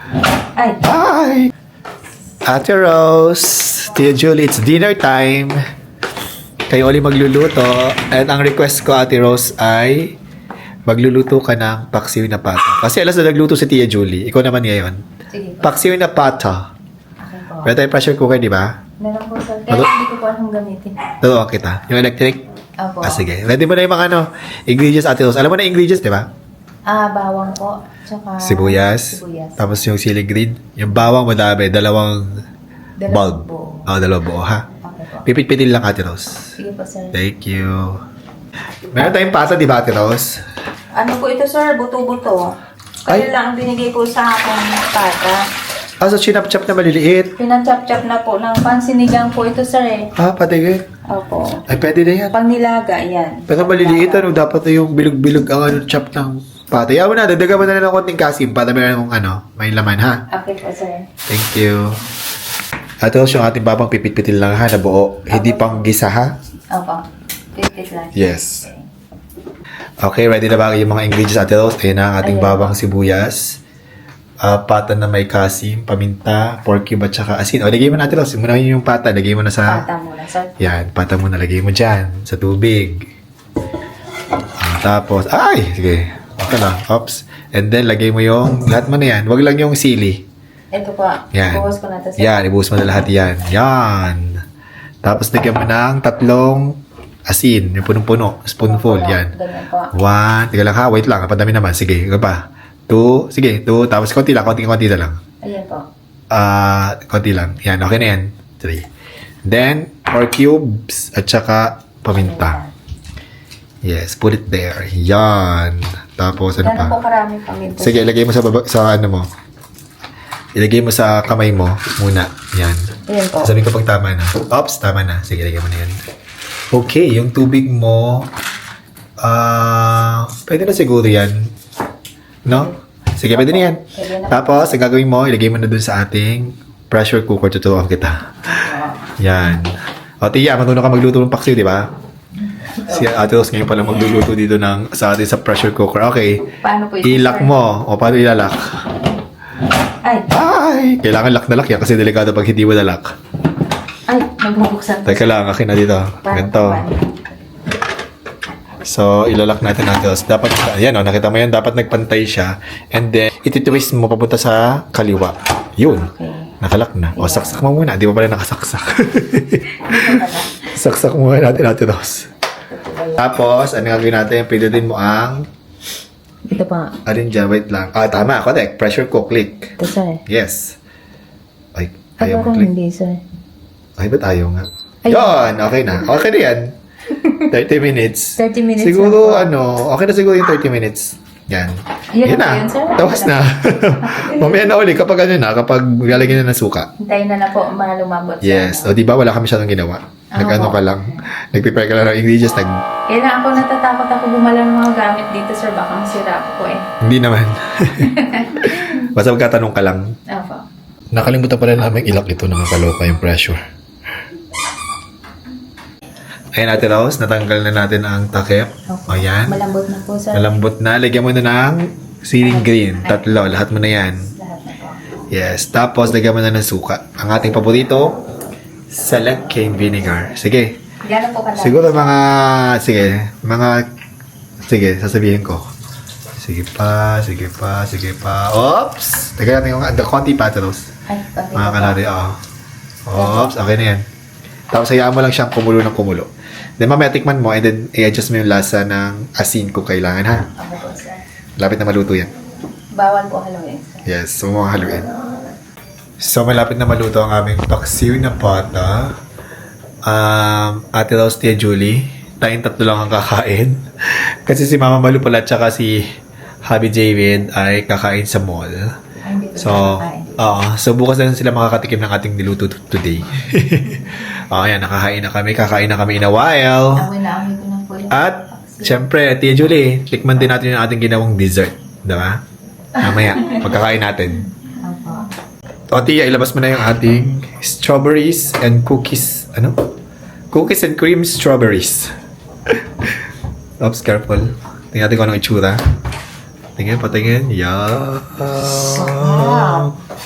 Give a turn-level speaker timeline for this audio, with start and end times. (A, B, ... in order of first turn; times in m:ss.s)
0:00.6-0:00.8 A
0:00.8-0:01.5 B
0:02.4-0:05.6 B
0:06.7-0:10.1 B
0:10.9-0:15.0 B
0:15.3-0:15.7 A
0:15.6-0:16.6 B
0:17.2-0:17.7 A
0:17.6-0:18.7 B
0:19.0-0:21.1 A
0:21.2-0:22.4 B
0:22.8-0:23.2 A
0:23.0-0:26.3 B
0:26.9-0:29.7 A
0:28.4-0:32.4 B
0:33.0-0:33.9 A
0:33.1-0:34.6 B
0:34.8-0:35.2 A
0:35.2-0:36.5 B
0:36.6-0:37.2 A
0:37.1-0:38.0 B
0:38.9-0:40.4 B
0:40.9-0:42.5 A
0:43.0-0:45.4 A
0:46.0-0:47.3 B
0:47.4-0:50.1 A
0:50.2-0:50.8 B
0:51.1-0:51.6 A
0:51.7-0:52.3 B
0:52.3-0:54.4 A
0:53.5-1:00.2 B
1:00.3-1:01.1 A
1:01.3-1:02.0 B
1:03.0-1:06.3 B
1:05.3-1:05.9 A
1:06.7-1:07.0 A
1:07.6-1:08.9 A
1:08.1-1:08.6 B
1:10.0-1:13.6 B
1:12.2-1:12.8 A
1:14.4-1:19.8 B
1:19.6-1:20.5 A
1:20.6-1:23.1 B
1:24.6-1:30.2 B
1:30.7-1:32.4 A
1:31.3-1:34.4 B
1:35.0-1:39.3 B
1:38.6-1:39.9 A
1:39.9-1:45.2 B
1:45.4-1:45.8 A
1:46.3-1:48.8 B
1:49.4-1:52.6 B
1:52.1-1:52.7 A
1:53.8-1:57.0 B
1:56.6-1:58.0 A
1:57.8-1:59.3 B
2:00.5-2:06.0 B
2:03.1-2:03.5 A
2:06.7-2:08.3 B
2:09.2-2:11.5 B
2:12.4-2:18.4 B
2:13.3-2:14.8 A
2:18.4-2:19.0 A
2:19.2-2:21.9 B
2:22.8-2:23.1 A
2:22.8-2:26.5 B
2:26.6-2:27.6 A
2:27.0-2:28.8 B
2:30.0-2:30.3 A
2:30.3-2:33.1 B
2:34.1-2:35.4 A
2:35.0-2:36.8 B
2:36.2-2:37.3 A
2:38.8-2:52.3 B
2:45.8-2:46.5 A
2:47.1-2:47.6 A
2:49.8-2:50.6 A
2:52.7-2:53.3 A
2:53.2-2:55.5 B
2:56.4-2:57.0 A
2:57.0-2:59.7 B
2:59.8-3:00.2 A
3:00.3-3:00.8 B
3:01.7-3:02.7 B
3:02.2-3:03.2 A
3:04.0-3:06.7 B
3:05.0-3:05.5 A
3:07.2-3:07.4 A
3:07.5-3:16.9 B
3:08.4-3:09.5 A
3:12.1-3:14.8 A
3:17.0-3:19.0 A
3:18.4-3:22.7 B
3:20.3-3:20.8 A
3:23.1-3:26.8 A
3:27.0-3:30.0 B
3:28.0-3:29.0 A
3:30.3-3:30.6 A
3:31.1-3:33.6 B
3:36.5-3:39.6 B
3:38.9-3:40.5 A
3:40.3-3:44.3 B
3:42.4-3:45.0 A
3:45.3-3:48.2 B
3:48.9-3:50.8 B
3:51.0-3:52.1 A
3:51.6-3:53.8 B
3:54.6-3:55.6 B
3:56.4-4:00.9 B
4:01.1-4:02.0 A
4:01.5-4:02.4 B
4:03.0-4:04.0 B
4:03.1-4:03.6 A
4:04.7-4:10.5 B
4:10.6-4:11.2 A
4:11.6-4:12.3 B
4:12.9-4:14.1 A
4:14.0-4:15.1 B
4:16.2-4:19.1 B
4:20.0-4:26.0 B
4:26.6-4:28.9 B
4:29.2-4:30.4 A
4:29.6-4:37.1 B
4:37.0-4:39.0 A
4:38.1-4:42.4 B
4:43.0-4:44.4 B
4:43.1-4:43.6 A
4:44.7-4:45.3 A
4:45.9-4:49.8 B
4:50.5-4:52.1 B
4:52.7-4:53.2 B
4:53.8-4:55.8 B
4:56.8-4:59.9 B
4:58.6-4:59.9 A